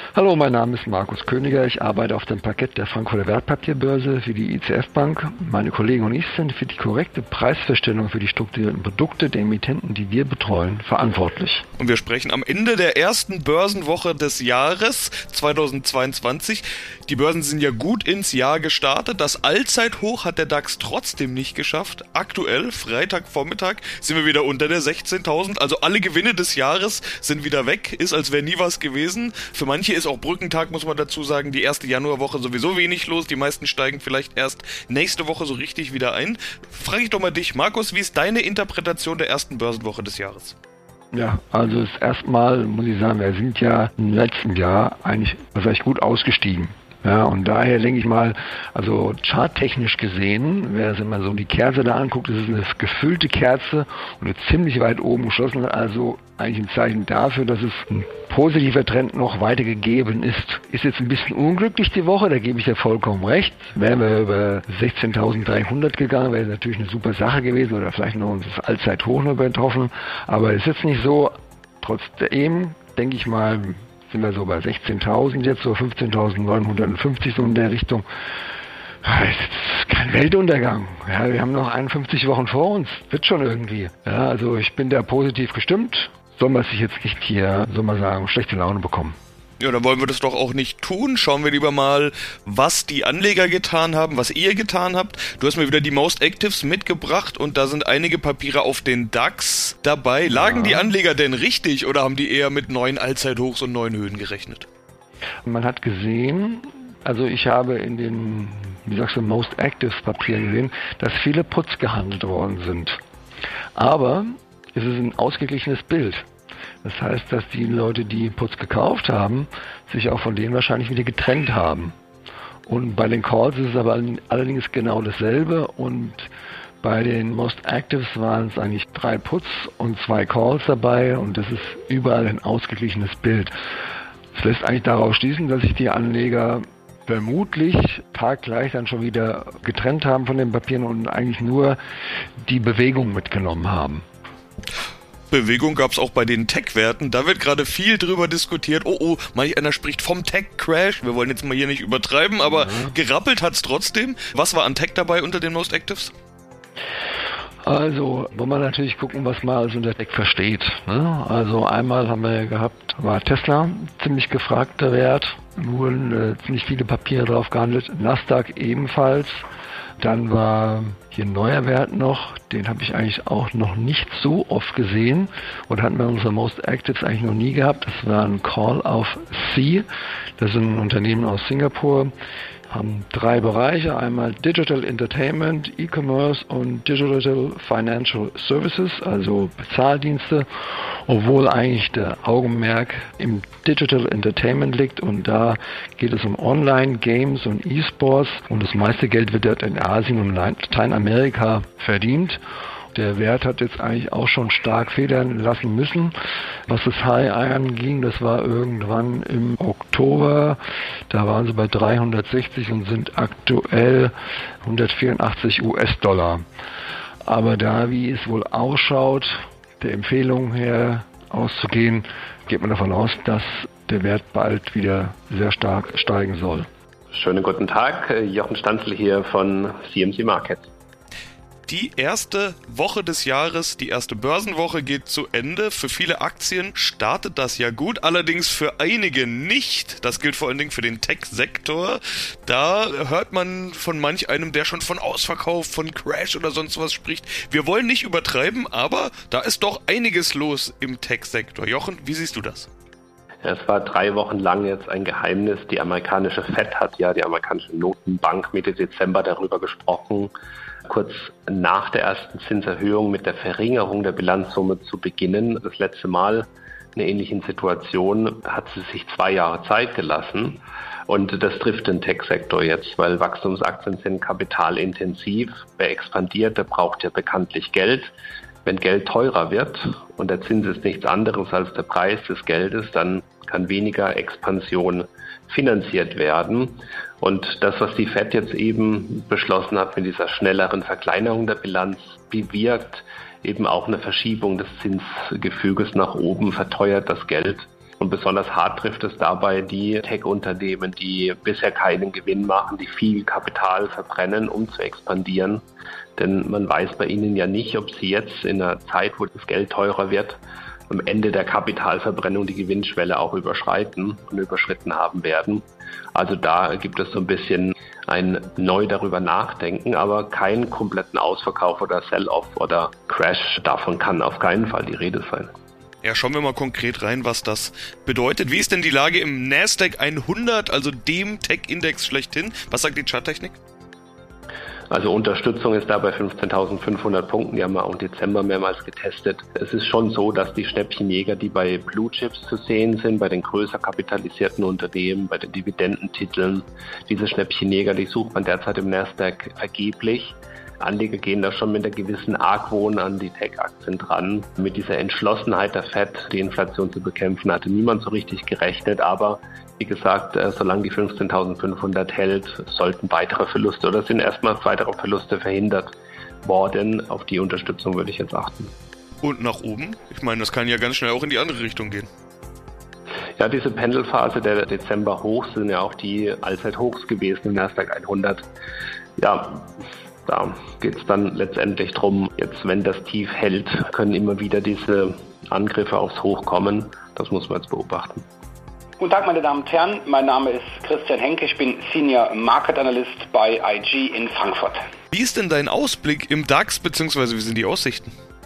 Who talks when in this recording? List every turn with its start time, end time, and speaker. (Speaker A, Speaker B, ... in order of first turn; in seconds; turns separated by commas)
Speaker A: 0.1-11.7, Speaker B: 11.8-40.6, Speaker A: 41.1-78.1, Speaker A: 79.0-89.2, Speaker B: 89.6-104.7, Speaker A: 100.3-100.9, Speaker A: 105.5-113.0, Speaker A: 113.8-116.3, Speaker A: 116.8-122.0, Speaker A: 122.7-126.3, Speaker A: 126.8-133.5, Speaker A: 134.3-141.8, Speaker A: 142.4-144.1, Speaker B: 145.3-156.1, Speaker A: 152.5-152.9, Speaker A: 157.6-169.4, Speaker A: 170.0-179.9, Speaker A: 180.4-182.1, Speaker A: 182.7-202.4, Speaker A: 202.9-206.1, Speaker A: 206.7-216.4, Speaker A: 217.2-226.7, Speaker C: 227.1-230.7, Speaker B: 231.7-252.7, Speaker C: 253.4-260.3, Speaker C: 260.9-278.1, Speaker C: 278.6-305.6, Speaker C: 306.2-325.5, Speaker B: 326.0-333.6, Speaker C: 334.9-365.9, Speaker C: 366.4-368.7, Speaker B: 369.2-372.1, Speaker C: 373.4-378.5, Speaker C: 379.2-379.8, Speaker C: 380.3-388.2, Speaker D: 389.0-394.9, Speaker B: 395.1-398.1